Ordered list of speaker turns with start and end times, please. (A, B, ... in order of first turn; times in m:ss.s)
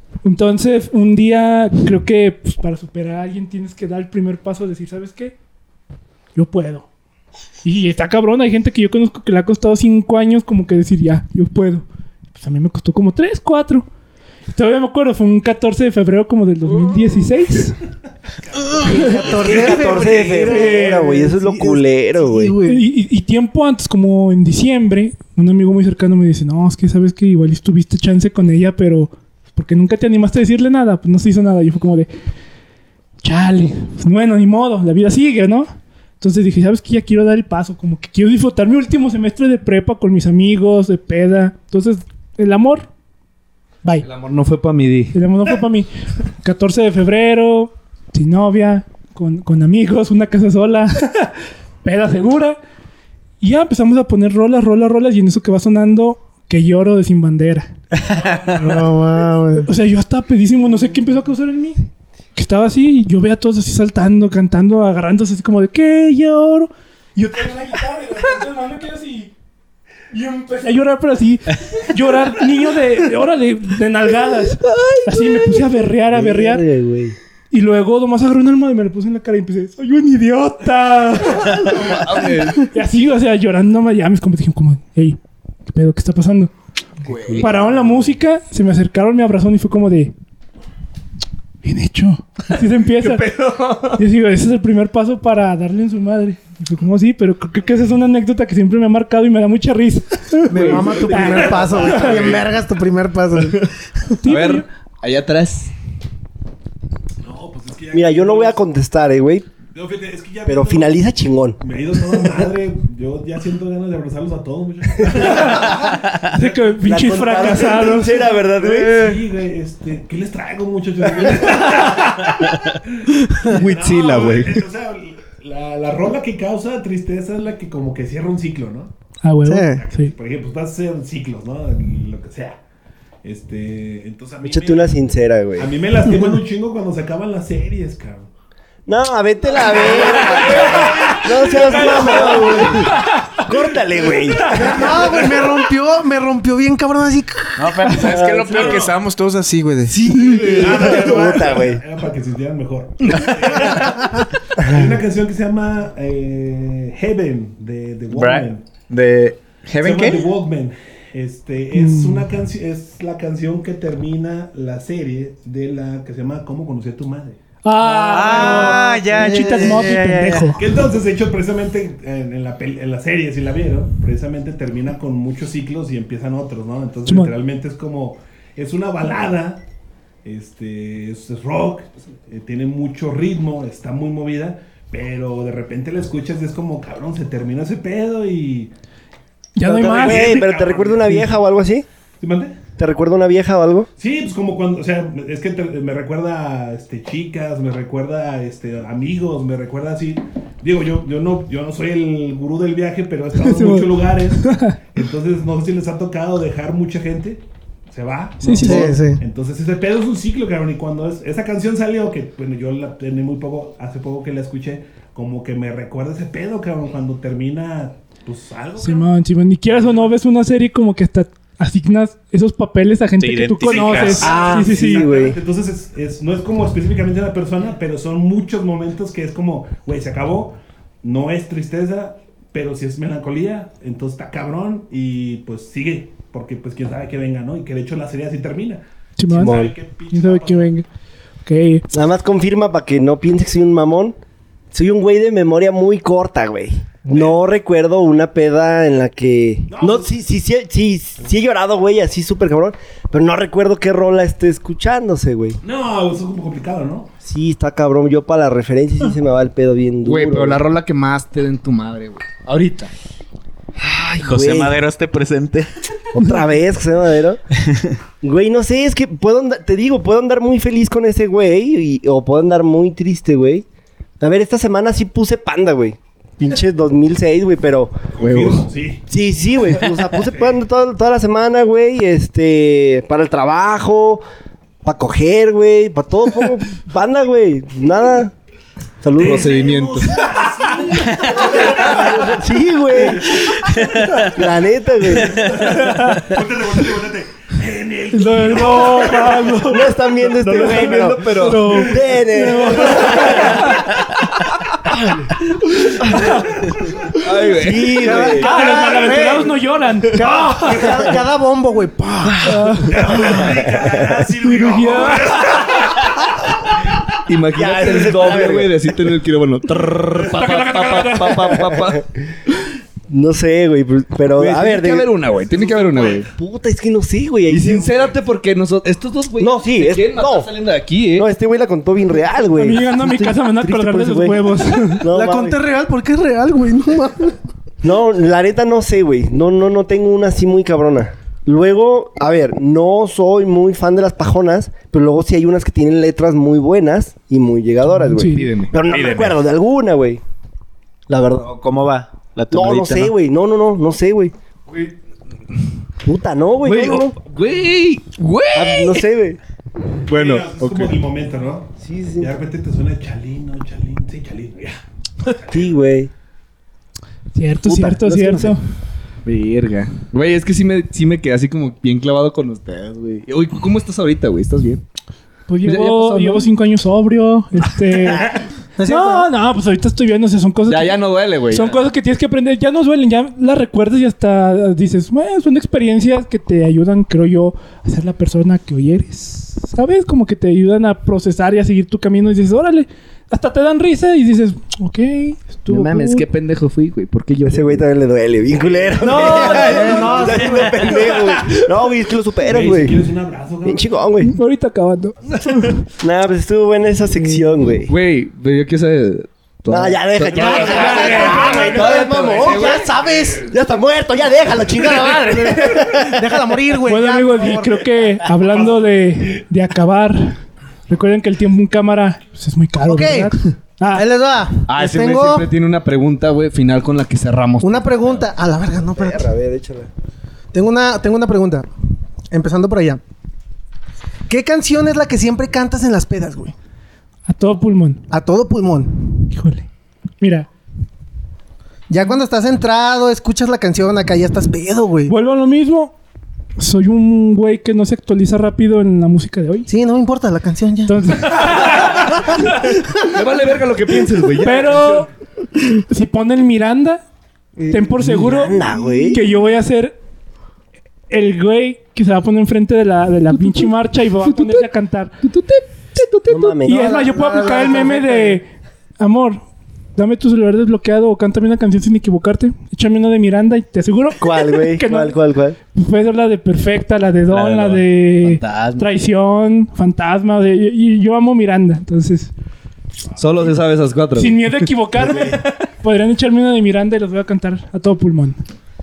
0:00.2-0:05.3 A
0:06.3-0:06.9 A
0:07.6-0:13.9 A
0:14.5-0:17.8 A
0:18.5-0:20.2 B
0:18.7-0:22.8 C
0:18.8-0:22.6 D
0:20.4-0:20.9 A
0:22.6-0:32.1 A
0:33.2-0:35.7 A
0:36.2-0:42.9 A
0:44.0-0:45.2 E
0:45.1-0:45.9 A
0:46.4-0:52.6 A
0:53.4-0:57.7 A
0:58.1-0:58.4 F
0:58.5-0:59.7 C
0:59.6-1:01.8 A
1:02.3-1:09.3 A
1:10.1-1:16.6 A
1:14.8-1:15.4 D
1:16.1-1:17.2 D
1:17.5-1:26.5 A
1:21.6-1:22.7 E
1:27.0-1:27.6 E
1:27.4-1:30.1 A
1:31.6-1:33.3 A
1:33.0-1:34.0 E
1:34.0-1:42.0 A
1:40.5-1:43.7 C
1:40.5-1:42.4 E
1:41.0-1:42.4 B
1:43.4-1:43.7 E
1:44.2-1:44.6 A
1:44.2-1:45.7 E
1:47.2-1:48.6 B
1:47.9-1:49.5 D
1:49.6-1:51.0 B
1:50.4-1:51.6 D
1:51.6-2:08.9 B
1:56.3-1:58.2 A
1:56.8-1:59.2 D
2:03.3-2:04.6 E
2:09.2-2:10.1 A
2:09.4-2:09.8 C
2:09.7-2:12.6 B
2:13.2-2:15.0 B
2:14.4-2:15.8 D
2:15.6-2:18.3 B
2:16.1-2:16.3 C
2:18.9-2:25.0 D
2:19.6-2:22.9 B
2:21.4-2:23.5 A
2:24.4-2:25.4 B
2:24.5-2:28.1 C
2:27.6-2:30.1 F
2:27.9-2:28.9 D
2:29.9-2:31.1 C
2:30.1-2:30.7 E
2:30.2-2:38.7 B
2:30.4-2:31.8 D
2:33.2-2:33.5 F
2:38.1-2:40.3 F
2:39.8-2:47.4 B
2:41.7-2:42.3 A
2:47.6-2:50.6 A
2:48.0-2:50.0 F
2:48.0-2:50.4 C
2:50.6-2:59.6 B
2:57.1-2:57.3 A
3:00.2-3:08.7 B
3:09.6-3:10.4 A
3:09.6-3:11.8 D
3:09.8-3:11.3 B
3:12.2-3:12.6 B
3:12.8-3:13.9 D
3:14.0-3:39.1 B
3:23.4-3:24.8 A
3:28.4-3:28.9 A
3:28.6-3:29.2 C
3:38.8-3:45.1 A
3:39.7-3:40.1 B
3:43.2-3:44.4 F
3:43.6-4:00.7 B
3:44.2-3:45.4 D
3:59.2-4:00.8 A
3:59.3-3:59.7 D
4:01.4-4:01.8 A
4:01.9-4:04.2 D
4:04.7-4:15.6 D
4:07.0-4:07.4 B
4:09.7-4:10.1 B
4:15.6-4:17.1 B
4:17.2-4:20.6 D
4:20.0-4:22.9 E
4:23.8-4:24.8 D
4:24.2-4:25.7 F
4:26.1-4:27.4 D
4:28.2-4:33.6 D
4:34.2-4:38.0 D
4:38.2-4:38.6 E
4:38.2-4:39.0 B
4:39.1-4:44.2 D
4:40.1-4:40.6 B
4:44.8-4:48.3 D
4:49.0-4:49.6 D
4:49.2-4:52.3 B
4:49.2-4:50.2 E
4:51.3-4:53.5 D
4:53.8-4:54.0 F
4:54.2-4:55.7 D
4:55.4-4:59.6 B
4:55.8-4:56.2 A
4:58.1-4:59.9 A
4:59.7-5:03.8 D
5:00.4-5:02.0 E
5:00.5-5:03.7 A
5:06.0-5:06.4 D
5:06.0-5:06.6 A
5:07.2-5:08.2 E
5:07.5-5:08.5 D
5:08.0-5:09.5 C
5:08.3-5:10.2 A
5:10.1-5:12.9 C
5:10.2-5:11.2 B
5:12.4-5:13.6 A
5:12.8-5:16.2 B
5:13.4-5:14.2 D
5:14.4-5:15.4 A
5:17.1-5:22.6 E
5:17.5-5:18.7 D
5:20.1-5:21.5 B
5:21.6-5:21.9 D
5:23.1-5:25.2 D
5:24.3-5:26.3 E
5:25.4-5:26.2 B
5:25.7-5:28.1 D
5:27.5-5:31.3 E
5:29.4-5:30.5 D
5:31.2-5:35.6 D
5:32.5-5:35.1 A
5:35.0-5:37.4 C
5:37.8-5:50.2 D
5:47.9-5:48.5 A
5:48.3-5:48.7 E
5:48.8-5:49.4 F
5:51.1-5:51.5 D
5:51.4-5:53.1 F
5:52.5-5:54.3 D
5:54.7-5:54.9 E
5:56.0-5:57.1 D
5:56.6-5:59.1 E
5:58.5-5:59.4 D
6:00.1-6:00.9 E
6:00.1-6:04.8 B
6:01.8-6:02.4 D
6:05.5-6:06.1 D
6:07.3-6:08.6 A
6:07.6-6:08.5 D
6:09.2-6:14.8 E
6:15.5-6:36.2 A
6:15.6-6:16.5 E
6:18.8-6:19.3 C
6:20.7-6:21.8 E
6:35.7-6:37.8 E
6:37.4-6:43.0 D
6:38.6-6:40.2 B
6:39.0-6:40.7 C
6:39.0-6:40.6 A
6:39.4-6:40.2 E
6:40.9-6:41.6 B
6:42.4-6:44.1 B
6:43.6-6:44.3 D
6:44.2-6:45.8 A
6:46.0-6:47.9 D
6:47.2-6:47.5 A
6:47.9-6:52.9 E
6:49.7-6:56.3 D
6:50.4-6:52.0 A
6:50.6-6:53.5 C
6:55.6-6:57.8 C
6:56.9-7:04.0 A
6:58.4-6:58.7 B
7:02.8-7:03.4 C
7:03.9-7:05.5 C
7:04.7-7:08.2 E
7:07.6-7:09.3 C
7:08.9-7:09.9 D
7:10.5-7:11.7 C
7:12.3-7:13.0 C
7:14.3-7:16.5 C
7:17.3-7:18.0 A
7:18.1-7:19.0 C
7:19.3-7:19.7 A
7:20.2-7:20.5 A
7:21.9-7:25.1 C
7:25.1-7:25.9 A
7:26.6-7:29.7 A
7:29.7-7:32.0 C
7:30.9-7:32.5 A
7:32.6-7:33.1 C
7:33.0-7:35.1 E
7:34.4-7:35.1 A
7:35.9-7:37.0 A
7:37.6-7:38.1 C
7:37.7-7:40.0 A
7:38.0-7:39.2 D
7:38.6-7:39.0 C
7:41.1-7:45.1 A
7:43.3-7:44.7 E
7:45.2-7:46.6 E
7:46.3-7:47.5 D
7:46.6-7:48.5 A
7:46.9-7:48.4 C
7:49.0-7:49.4 A
7:50.0-7:55.2 A
7:54.2-7:55.6 D
7:55.7-8:02.3 A
7:57.3-7:58.9 E
8:03.2-8:05.4 E
8:04.2-8:08.4 A